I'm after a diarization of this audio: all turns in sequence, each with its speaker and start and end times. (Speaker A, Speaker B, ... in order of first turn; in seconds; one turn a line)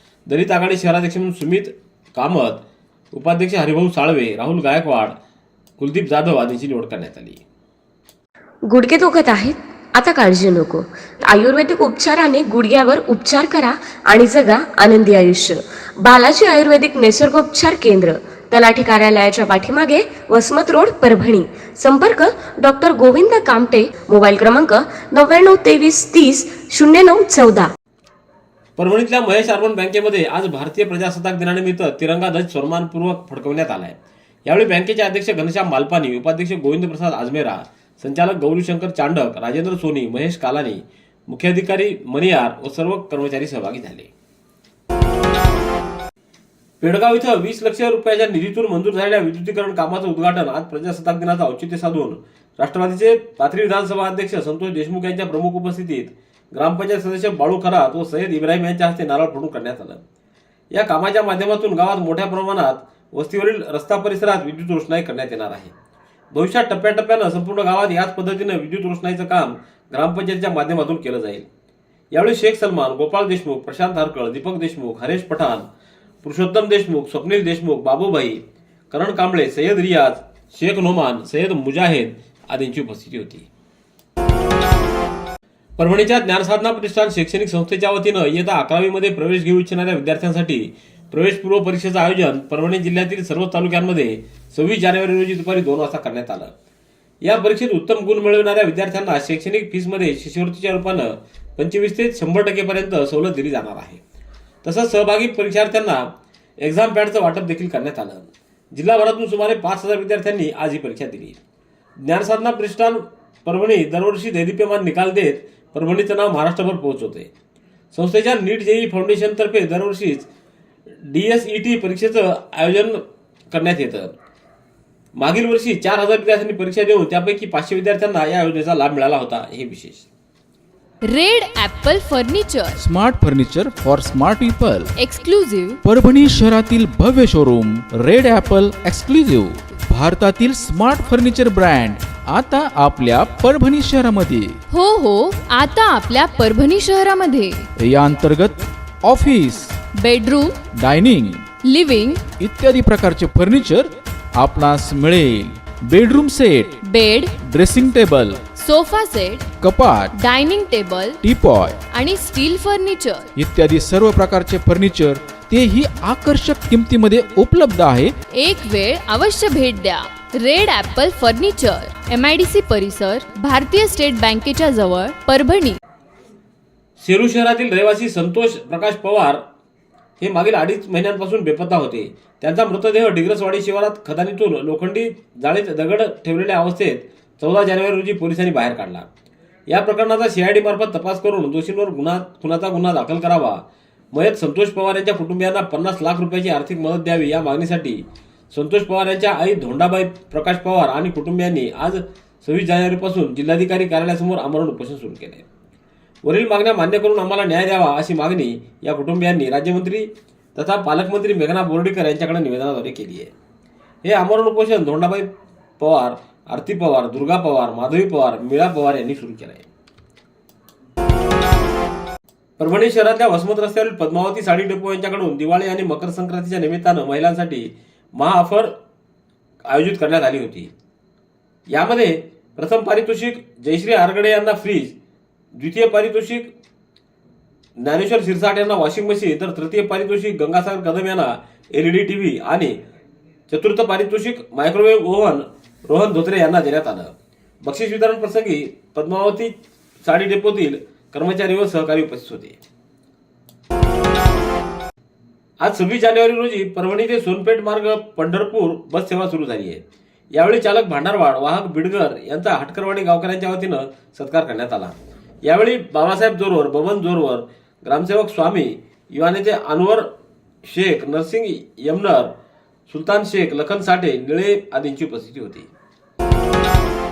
Speaker A: 0.3-2.6
Speaker A: 3.1-5.2
Speaker A: 5.8-7.4
Speaker B: 8.7-27.7
Speaker A: 28.8-44.1
Speaker A: 46.8-60.0
Speaker A: 60.7-65.7
Speaker A: 66.3-71.5
Speaker A: 72.1-75.7
Speaker A: 76.2-83.5
Speaker A: 85.8-96.5
Speaker A: 97.2-104.0
Speaker A: 104.6-106.1
Speaker A: 106.6-111.4
Speaker A: 112.0-117.3
Speaker A: 117.9-120.3
Speaker A: 121.0-124.1
Speaker A: 125.2-130.1
Speaker C: 131.1-132.8
Speaker D: 132.8-134.9
Speaker C: 135.0-135.8
Speaker D: 135.8-144.6
Speaker C: 144.7-147.6
Speaker D: 147.8-149.8
Speaker C: 150.0-150.6
Speaker D: 150.8-151.4
Speaker C: 151.7-152.2
Speaker D: 152.4-156.7
Speaker C: 156.8-157.3
Speaker D: 157.4-158.4
Speaker C: 158.6-159.5
Speaker D: 159.6-160.2
Speaker C: 160.1-161.2
Speaker D: 161.2-161.8
Speaker C: 161.9-163.2
Speaker D: 163.4-168.1
Speaker C: 168.4-175.8
Speaker A: 177.0-179.4
Speaker A: 180.2-189.1
Speaker A: 189.7-205.4
Speaker A: 206.2-213.3
Speaker A: 214.0-219.7
Speaker A: 222.6-228.7
Speaker A: 229.7-230.7
Speaker A: 231.7-235.0
Speaker A: 235.6-236.5
Speaker A: 237.8-242.8
Speaker A: 243.5-252.6
Speaker A: 255.6-270.1
Speaker A: 270.6-272.3
Speaker A: 272.9-275.7